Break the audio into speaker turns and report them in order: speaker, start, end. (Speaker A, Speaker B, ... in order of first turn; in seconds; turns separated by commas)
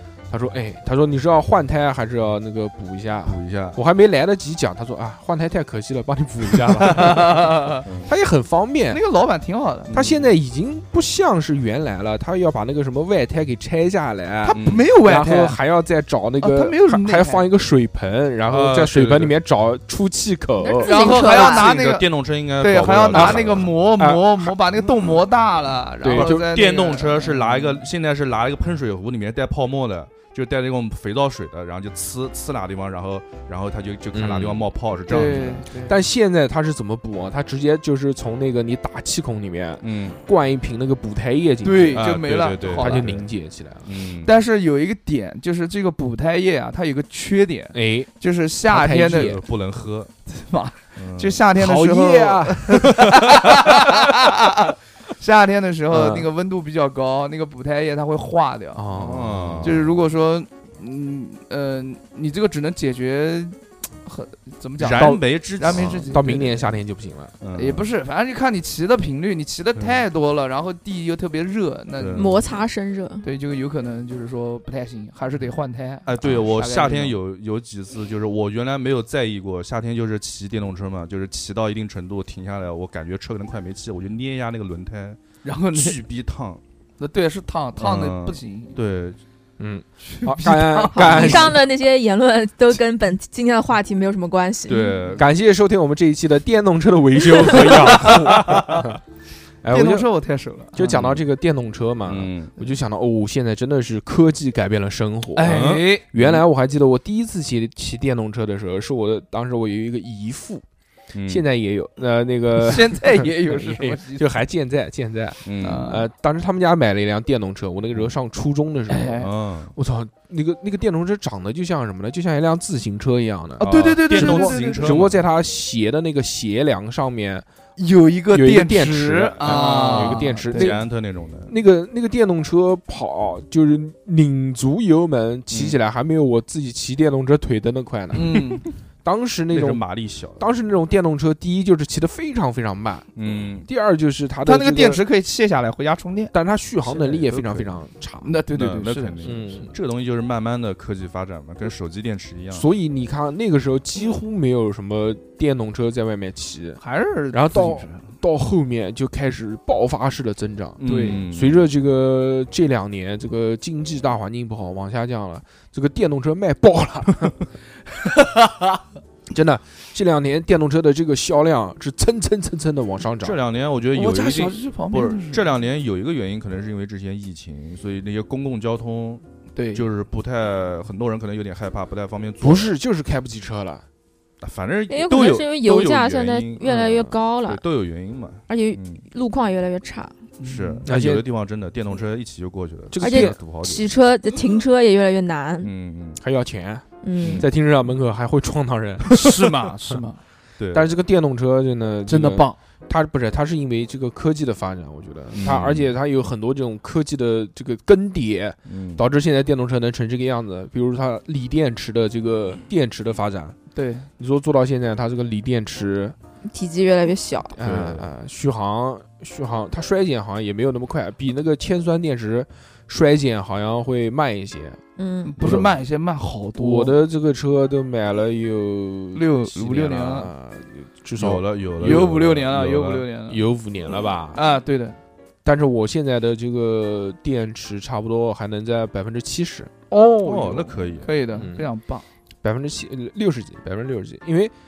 Speaker A: 0.3-7.5, Speaker B: 3.2-3.8, Speaker C: 6.8-7.8, Speaker B: 7.8-8.1, Speaker A: 8.0-9.0, Speaker C: 8.9-9.9, Speaker B: 9.9-10.2, Speaker A: 9.9-20.9, Speaker C: 14.4-15.6, Speaker B: 14.5-14.9, Speaker C: 16.4-17.4, Speaker B: 18.5-19.3, Speaker D: 20.6-21.7, Speaker C: 20.8-22.1, Speaker B: 21.0-23.9, Speaker C: 22.6-27.8, Speaker A: 23.1-24.5, Speaker A: 26.0-26.4, Speaker B: 26.1-35.6, Speaker A: 34.1-34.7, Speaker C: 35.1-36.0, Speaker A: 35.9-42.0, Speaker B: 39.8-40.2, Speaker C: 41.6-43.1, Speaker B: 41.9-43.2, Speaker A: 42.8-43.8, Speaker B: 43.8-44.3, Speaker C: 44.2-49.4, Speaker A: 47.7-48.1, Speaker A: 48.7-49.4, Speaker B: 49.1-50.1, Speaker C: 50.3-59.1, Speaker B: 51.0-51.4, Speaker A: 51.5-52.9, Speaker A: 55.9-56.3, Speaker A: 58.7-59.8, Speaker B: 59.0-60.0, Speaker C: 59.6-66.7, Speaker B: 64.8-66.2, Speaker A: 64.9-67.3, Speaker B: 67.4-67.9, Speaker C: 67.5-72.6, Speaker B: 69.8-70.0, Speaker B: 72.0-72.3, Speaker D: 72.2-73.2, Speaker C: 73.2-77.2, Speaker B: 76.0-85.2, Speaker C: 85.4-86.0, Speaker B: 85.7-86.6, Speaker C: 87.0-88.8, Speaker B: 87.8-89.2, Speaker A: 89.6-91.6, Speaker C: 90.0-91.6, Speaker D: 90.9-95.1, Speaker B: 94.7-95.2, Speaker A: 95.2-99.0, Speaker C: 97.4-98.8, Speaker B: 98.0-98.8, Speaker A: 99.6-100.1, Speaker C: 99.7-100.9, Speaker A: 100.7-110.6, Speaker B: 100.8-101.2, Speaker B: 102.0-102.5, Speaker C: 105.3-106.0, Speaker B: 105.4-106.4, Speaker B: 111.1-111.4, Speaker A: 111.3-127.4, Speaker C: 112.5-114.3, Speaker B: 115.4-115.9, Speaker C: 115.6-116.0, Speaker C: 118.9-119.3, Speaker B: 119.2-119.7, Speaker B: 123.6-125.2, Speaker C: 123.6-125.0, Speaker C: 127.8-130.7, Speaker A: 128.3-130.9, Speaker B: 129.3-131.5, Speaker A: 131.4-138.3, Speaker B: 135.5-135.8, Speaker C: 138.1-138.7, Speaker A: 139.0-139.8, Speaker B: 139.5-140.5, Speaker A: 140.4-143.1, Speaker B: 143.2-143.7, Speaker A: 143.6-145.0, Speaker C: 144.4-146.3, Speaker A: 146.3-148.4, Speaker C: 146.8-147.6, Speaker C: 148.2-149.7, Speaker B: 148.5-152.6, Speaker A: 149.2-149.7, Speaker A: 152.5-167.3, Speaker C: 156.8-158.1, Speaker B: 160.8-161.6, Speaker C: 160.8-161.2, Speaker C: 168.3-168.8, Speaker A: 169.3-173.4, Speaker B: 173.2-182.7, Speaker C: 173.9-175.4, Speaker C: 179.6-179.8, Speaker A: 182.4-183.8, Speaker B: 184.4-186.8, Speaker D: 184.9-187.6, Speaker A: 186.6-187.1, Speaker B: 187.4-189.0, Speaker D: 188.5-190.1, Speaker C: 190.4-190.8, Speaker B: 190.4-193.9, Speaker A: 190.8-191.2, Speaker A: 192.9-193.4, Speaker D: 193.0-195.7, Speaker B: 195.6-196.2, Speaker A: 196.2-199.4, Speaker D: 197.0-197.4, Speaker B: 197.2-197.5, Speaker C: 199.1-200.2, Speaker B: 200.6-200.9, Speaker A: 200.7-213.6, Speaker C: 202.1-202.5, Speaker B: 205.3-205.9, Speaker B: 208.7-209.0, Speaker C: 213.7-214.1, Speaker A: 214.2-216.2, Speaker D: 216.5-217.6, Speaker A: 217.6-224.8, Speaker B: 217.6-218.0, Speaker D: 225.0-225.4, Speaker C: 225.2-226.9, Speaker A: 225.4-225.7, Speaker A: 226.6-232.0, Speaker C: 229.1-230.3, Speaker B: 231.2-233.1, Speaker C: 231.8-233.4, Speaker A: 233.3-234.4, Speaker C: 234.3-235.0, Speaker A: 235.4-239.7, Speaker C: 239.9-242.0, Speaker B: 240.2-241.2, Speaker A: 241.3-241.7, Speaker A: 242.4-244.5